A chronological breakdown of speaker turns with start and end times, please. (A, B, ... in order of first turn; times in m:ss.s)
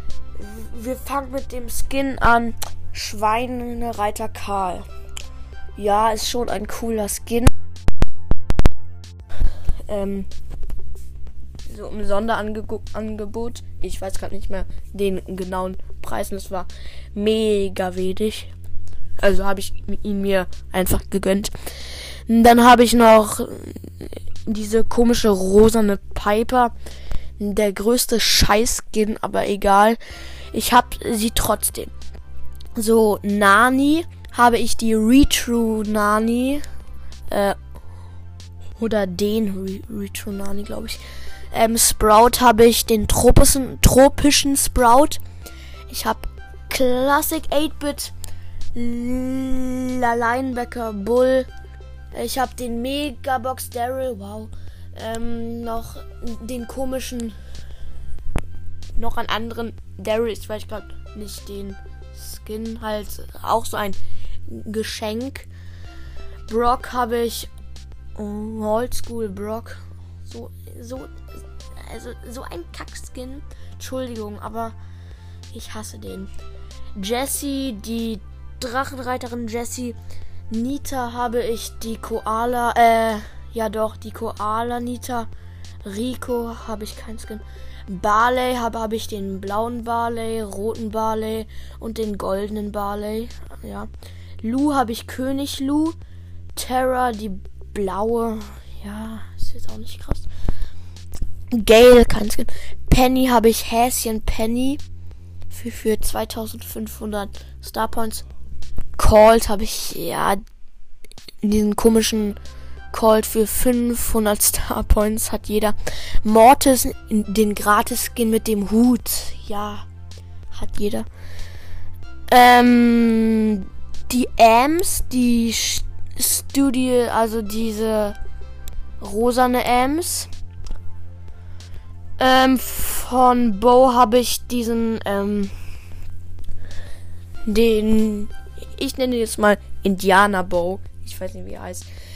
0:00.3-0:04.8 A
0:05.8-0:07.5 A
0:09.9-0:10.3 A
0:11.6-0:18.5 A
0:19.2-0:21.5 A
0:22.3-0:26.7 A
0:27.4-0:30.0 A
0:30.5-0:31.9 A
0:32.7-0:36.6 A
0:37.3-0:37.6 A
0:38.8-0:45.2 A
0:45.9-0:48.1 A
0:48.7-0:51.5 A
0:52.1-0:57.4 A
0:59.0-1:05.5 A
1:06.5-1:07.5 A
1:08.2-1:11.2 A
1:11.7-1:14.8 A
1:15.5-1:16.3 A
1:16.9-1:20.0 A
1:20.5-1:25.3 A
1:25.8-1:33.9 A
1:34.4-1:36.0 A
1:36.5-1:40.3 A
1:41.5-1:44.8 A
1:45.5-1:48.2 A
1:49.0-1:50.4 A
1:51.4-1:52.4 A
1:52.9-1:59.8 A
2:00.5-2:01.1 A
2:02.3-2:08.2 A
2:09.0-2:10.3 A
2:12.2-2:15.5 A
2:17.4-2:21.9 A